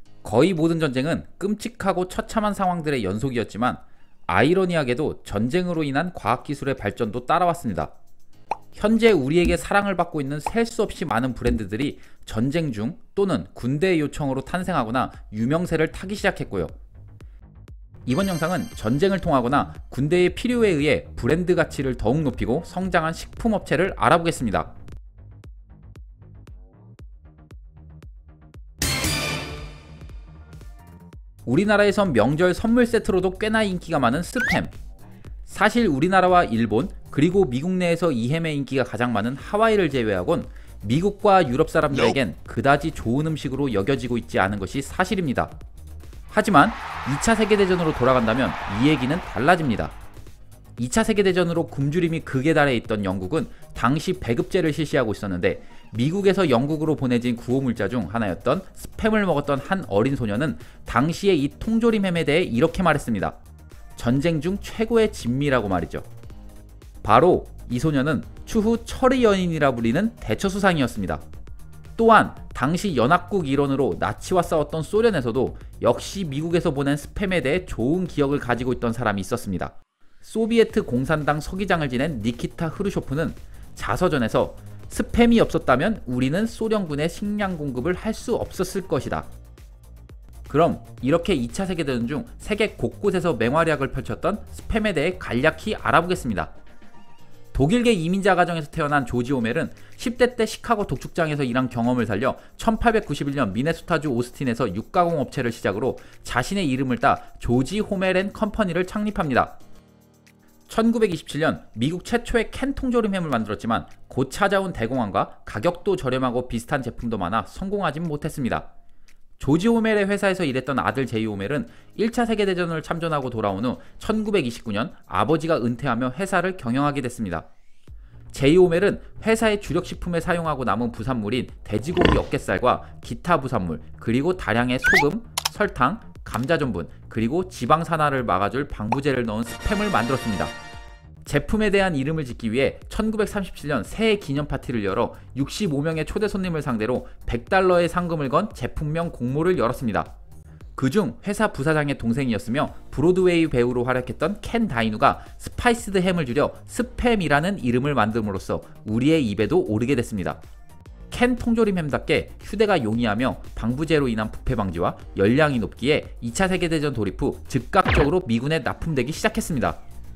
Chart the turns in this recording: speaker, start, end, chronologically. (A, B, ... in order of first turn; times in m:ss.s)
0:00.2-0:07.9 A
0:08.7-0:16.7 A
0:18.1-0:24.7 A
0:31.5-0:34.7 A
0:35.5-0:45.6 A
0:46.3-0:50.0 A
0:50.8-1:03.4 A
1:04.0-1:06.1 A
1:07.0-1:11.2 A
1:12.0-1:29.3 A
1:30.5-1:36.5 A
1:37.5-1:49.6 A
1:50.7-1:58.7 A
1:59.4-2:07.5 A
2:08.3-2:20.6 A
2:21.2-2:30.1 A
2:30.8-2:40.4 A
2:41.1-2:49.8 A